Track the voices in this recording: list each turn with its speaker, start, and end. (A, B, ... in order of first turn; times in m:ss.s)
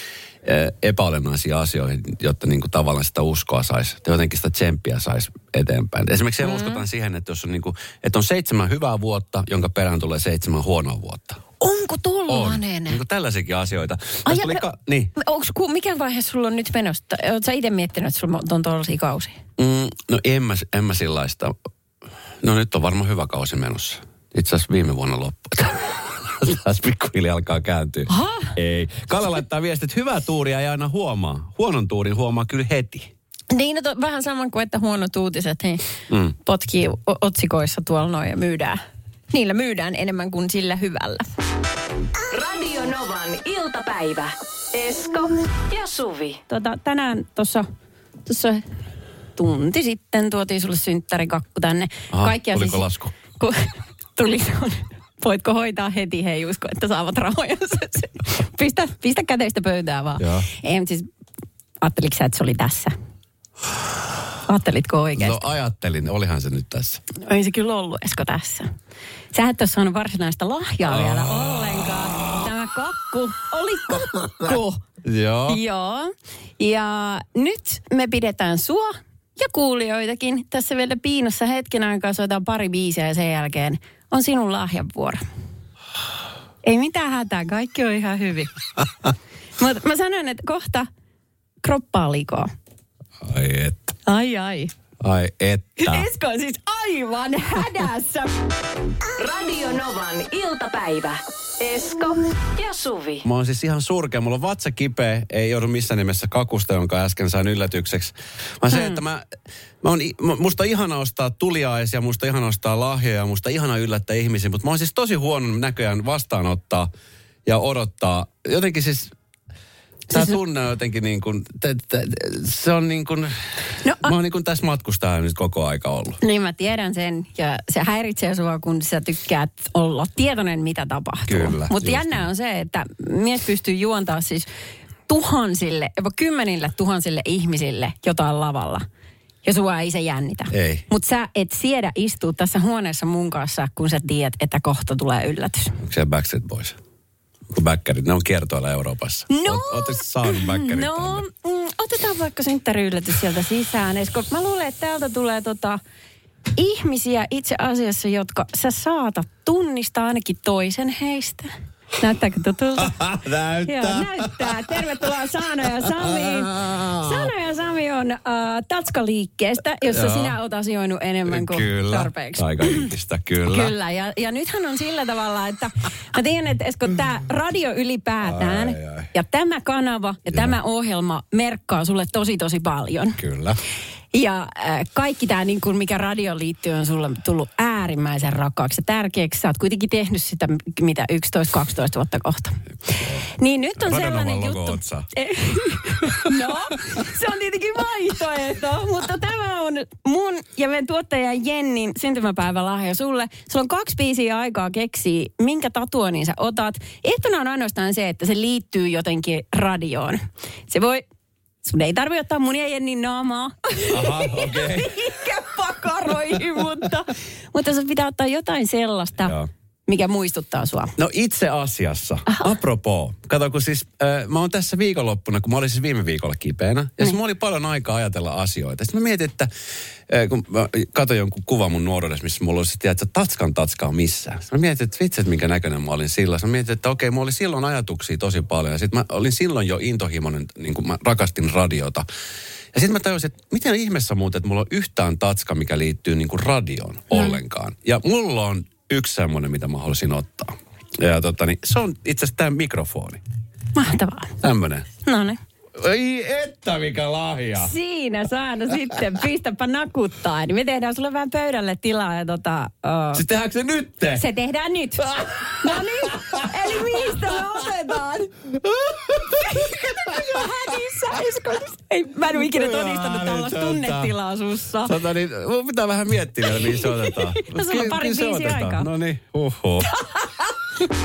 0:00.4-0:11.4 A
0:06.4-0:06.8 B
0:11.6-0:13.0 B
0:12.3-0:15.1 A
0:14.2-0:14.6 B
0:15.1-0:19.4 B
0:19.6-0:21.5 A
0:22.4-0:33.1 A
0:28.1-0:28.6 B
0:33.5-0:38.8 B
0:39.3-0:41.3 B
0:42.3-0:46.4 C
0:46.5-0:47.7 B
0:48.3-0:48.6 B
0:49.4-1:01.1 B
0:52.1-0:53.1 A
1:00.2-1:00.4 A
1:01.8-1:02.9 B
1:04.5-1:05.4 B
1:05.2-1:07.0 A
1:07.2-1:08.7 B
1:09.3-1:14.8 B
1:10.9-1:11.6 A
1:15.0-1:15.6 A
1:15.5-1:25.2 B
1:26.6-1:28.5 B
1:29.6-1:30.9 B
1:31.6-1:32.5 B
1:33.2-1:34.0 A
1:34.0-1:34.7 B
1:35.0-1:36.1 A
1:35.8-1:38.4 B
1:39.2-1:43.2 C
1:43.2-1:49.2 A
1:48.7-1:49.0 B
1:49.8-1:56.9 A
1:57.4-1:59.1 A
2:00.1-2:06.2 A
2:03.8-2:04.1 B
2:06.2-2:14.5 B
2:11.3-2:12.2 A
2:15.1-2:18.8 B
2:19.4-2:25.8 B
2:20.5-2:20.8 A
2:25.8-2:26.8 A
2:27.5-2:31.2 A
2:29.3-2:35.8 B
2:36.6-2:43.0 B
2:42.8-2:44.9 A
2:43.6-2:52.9 B
2:45.8-2:47.3 A
2:49.9-2:50.4 A
2:51.3-2:53.7 A
2:53.4-3:03.2 B
2:58.2-2:59.1 A
3:03.2-3:03.6 A
3:04.1-3:31.0 B
3:13.8-3:15.1 A
3:16.0-3:16.5 A
3:31.6-3:39.4 B
3:33.9-3:35.0 A
3:39.9-3:40.9 B
3:41.0-3:49.5 A
3:42.2-3:42.5 B
3:50.1-4:02.0 A
4:02.7-4:13.2 A
4:13.7-4:14.4 B
4:14.4-4:14.8 A
4:15.0-4:15.4 B
4:15.8-4:17.7 A
4:17.6-4:23.2 B
4:23.1-4:24.2 A
4:24.1-4:28.3 B
4:25.0-4:27.4 A
4:28.5-4:29.8 A
4:29.4-4:34.9 B
4:32.3-4:34.1 A
4:34.8-4:39.9 A
4:36.5-4:38.9 B
4:39.9-4:40.4 B